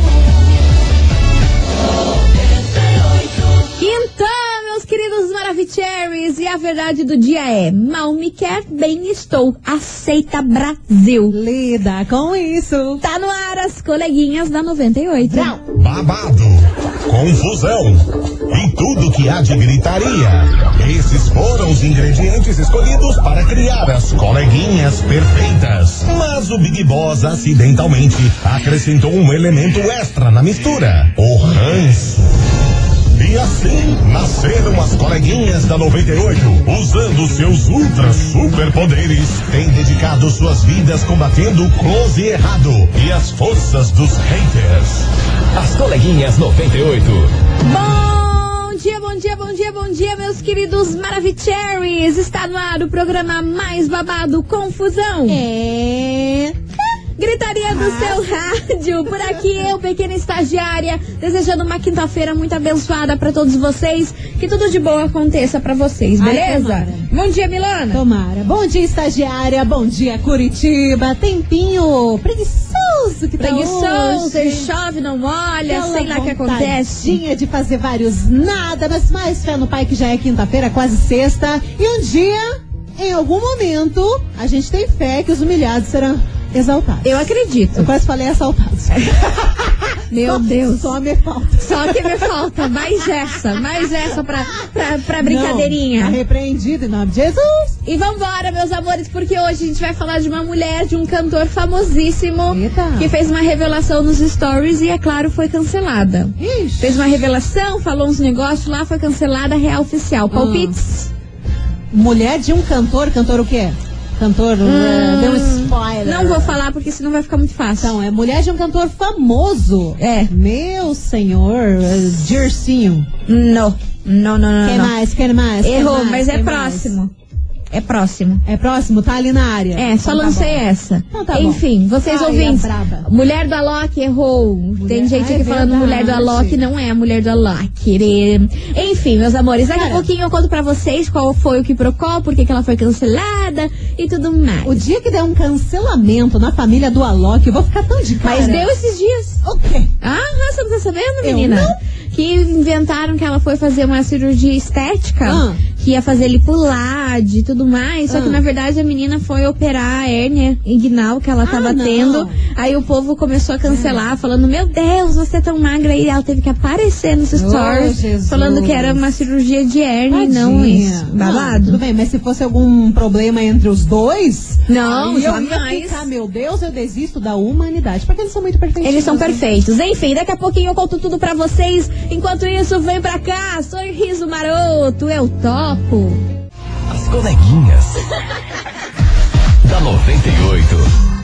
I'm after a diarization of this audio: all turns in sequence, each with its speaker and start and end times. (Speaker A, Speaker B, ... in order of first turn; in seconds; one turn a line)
Speaker A: 3.7-11.3
Speaker B: 11.3-13.0
Speaker A: 13.0-15.5
Speaker B: 15.2-15.6
Speaker C: 15.7-32.3
Speaker C: 33.1-45.1
Speaker D: 45.5-47.3
Speaker A: 47.6-55.4
Speaker B: 55.3-56.5
Speaker A: 57.2-68.0
Speaker B: 57.7-58.3
Speaker B: 59.1-59.4
Speaker B: 66.2-67.1
Speaker B: 67.9-74.7
Speaker A: 73.4-77.2
Speaker B: 75.7-92.2
Speaker A: 87.0-87.9
Speaker A: 90.1-90.9
Speaker A: 91.6-96.2
Speaker B: 95.2-97.7
Speaker A: 97.8-111.1
Speaker B: 102.5-103.1
Speaker B: 106.4-107.0
Speaker B: 110.3-110.8
Speaker B: 111.9-116.6
Speaker A: 114.6-118.0
Speaker B: 117.8-123.1
Speaker A: 120.0-120.3
Speaker A: 123.3-124.9
Speaker B: 124.6-127.0
Speaker A: 125.6-127.1
Speaker A: 127.7-128.4
Speaker B: 128.4-133.1
Speaker A: 129.8-144.8
Speaker B: 134.8-136.6
Speaker B: 139.7-140.1
Speaker B: 144.6-148.7
Speaker A: 148.2-149.4
Speaker B: 149.4-149.9
Speaker A: 150.0-171.8
Speaker B: 151.2-151.8
Speaker B: 155.2-155.6
Speaker B: 158.1-158.4
Speaker B: 161.4-162.4
Speaker B: 163.7-164.0
Speaker B: 167.3-169.1
Speaker B: 170.1-179.4
Speaker A: 174.7-176.1
Speaker A: 178.8-186.2
Speaker D: 186.9-188.0
Speaker D: 189.6-190.9